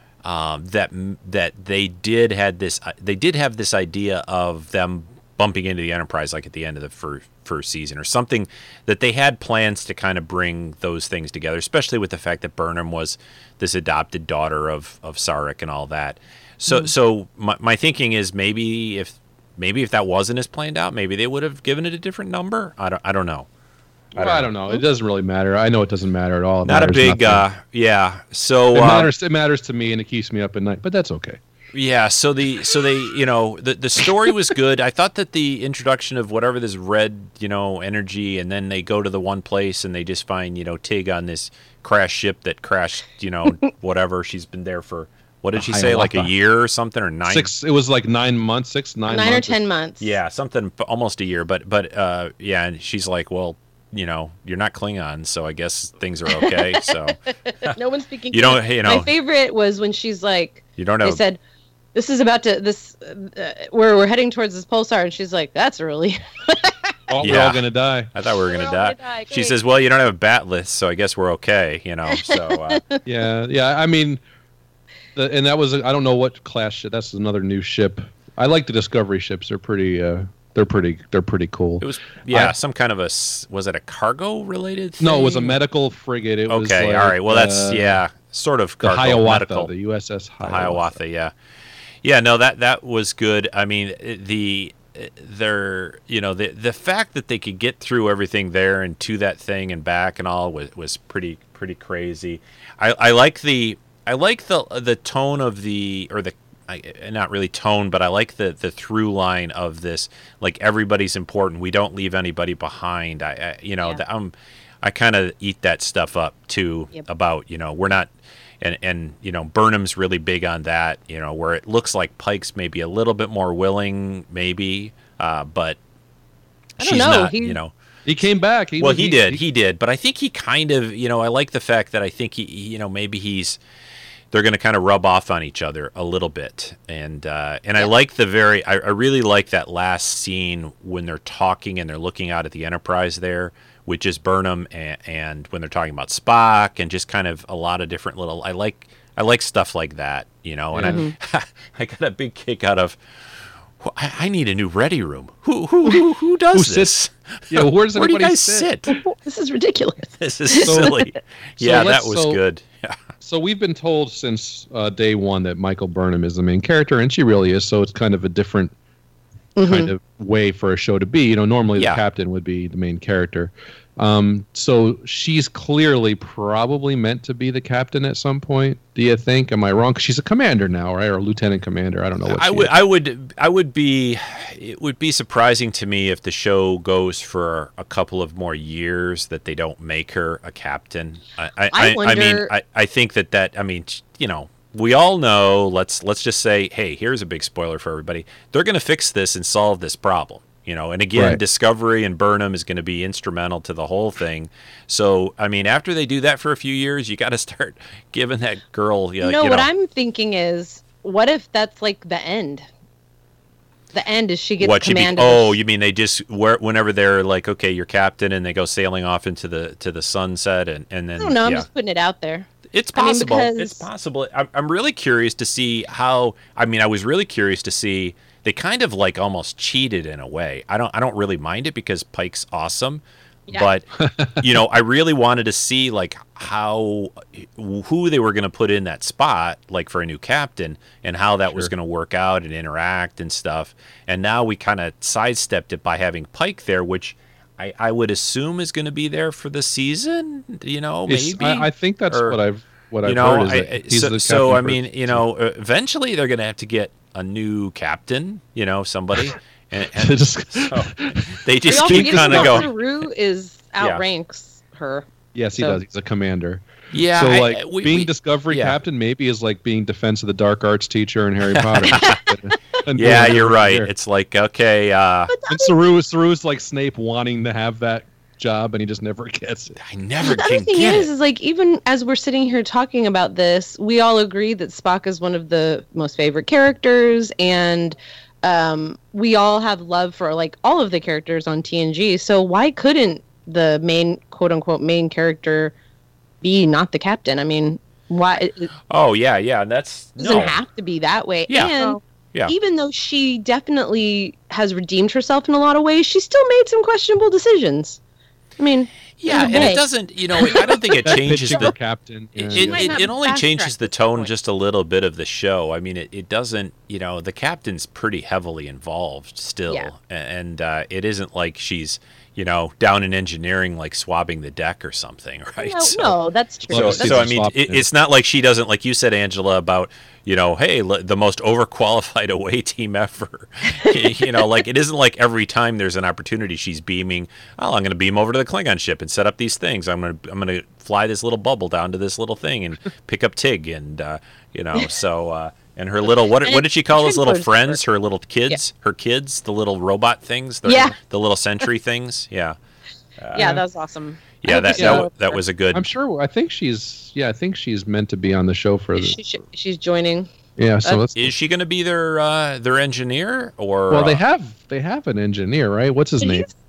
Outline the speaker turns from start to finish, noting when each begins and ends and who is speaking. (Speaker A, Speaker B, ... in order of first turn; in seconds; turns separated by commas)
Speaker A: 0.2-23.5, Speaker A: 24.1-24.5, Speaker B: 24.1-27.4, Speaker A: 26.6-29.1, Speaker B: 28.7-31.4, Speaker A: 31.7-47.5, Speaker B: 45.5-46.3, Speaker B: 47.3-49.5, Speaker C: 49.1-50.1, Speaker A: 50.0-57.7, Speaker C: 56.4-56.8, Speaker C: 57.5-61.4, Speaker A: 58.3-59.1, Speaker A: 60.8-61.2, Speaker C: 61.9-66.9, Speaker B: 67.1-68.1, Speaker A: 67.2-72.8, Speaker C: 68.5-69.5, Speaker C: 72.2-73.0, Speaker B: 73.0-74.2, Speaker B: 75.2-82.5, Speaker A: 81.8-85.5, Speaker B: 85.0-88.0, Speaker A: 86.5-89.7, Speaker B: 88.8-91.0, Speaker A: 90.4-91.3, Speaker A: 92.0-118.1, Speaker A: 118.6-125.8, Speaker A: 126.8-127.7, Speaker C: 126.8-127.6, Speaker B: 128.1-129.4, Speaker A: 128.8-133.6, Speaker A: 134.3-153.0, Speaker B: 150.7-151.0, Speaker C: 150.8-151.1, Speaker A: 153.8-158.9, Speaker B: 156.5-156.9, Speaker B: 157.5-159.0, Speaker C: 159.0-161.0, Speaker A: 160.2-163.0, Speaker B: 160.6-161.0, Speaker B: 161.6-162.4, Speaker B: 163.2-168.7, Speaker C: 169.6-169.9, Speaker B: 169.6-182.7, Speaker A: 182.3-209.7, Speaker C: 191.7-192.5, Speaker B: 201.2-201.4, Speaker C: 209.2-212.7, Speaker C: 213.9-215.6, Speaker A: 214.6-221.7, Speaker C: 221.2-223.9, Speaker A: 222.7-233.9, Speaker B: 234.0-234.4, Speaker A: 234.4-252.4, Speaker B: 251.1-255.2, Speaker A: 253.0-262.7, Speaker B: 260.0-262.7, Speaker C: 261.7-265.8, Speaker B: 265.3-273.9, Speaker A: 266.9-268.8, Speaker A: 271.5-272.2, Speaker A: 272.9-275.3, Speaker C: 275.3-275.7, Speaker B: 275.5-279.8, Speaker A: 279.8-281.1, Speaker C: 280.2-295.7, Speaker C: 296.4-298.7, Speaker A: 298.9-300.6, Speaker C: 300.2-308.0, Speaker A: 301.5-302.5, Speaker C: 308.6-309.8, Speaker A: 309.2-311.7, Speaker B: 311.1-313.0, Speaker A: 312.4-326.1, Speaker C: 312.5-314.3, Speaker C: 325.6-327.3, Speaker B: 326.7-327.8, Speaker A: 326.7-352.6, Speaker C: 346.4-347.8, Speaker C: 350.7-350.9, Speaker A: 353.2-353.6, Speaker C: 353.3-355.4, Speaker A: 354.4-355.9, Speaker B: 354.8-355.1, Speaker B: 355.7-359.2, Speaker C: 358.9-360.3, Speaker B: 360.6-361.3, Speaker A: 361.1-364.2, Speaker B: 363.9-366.5, Speaker C: 366.2-366.5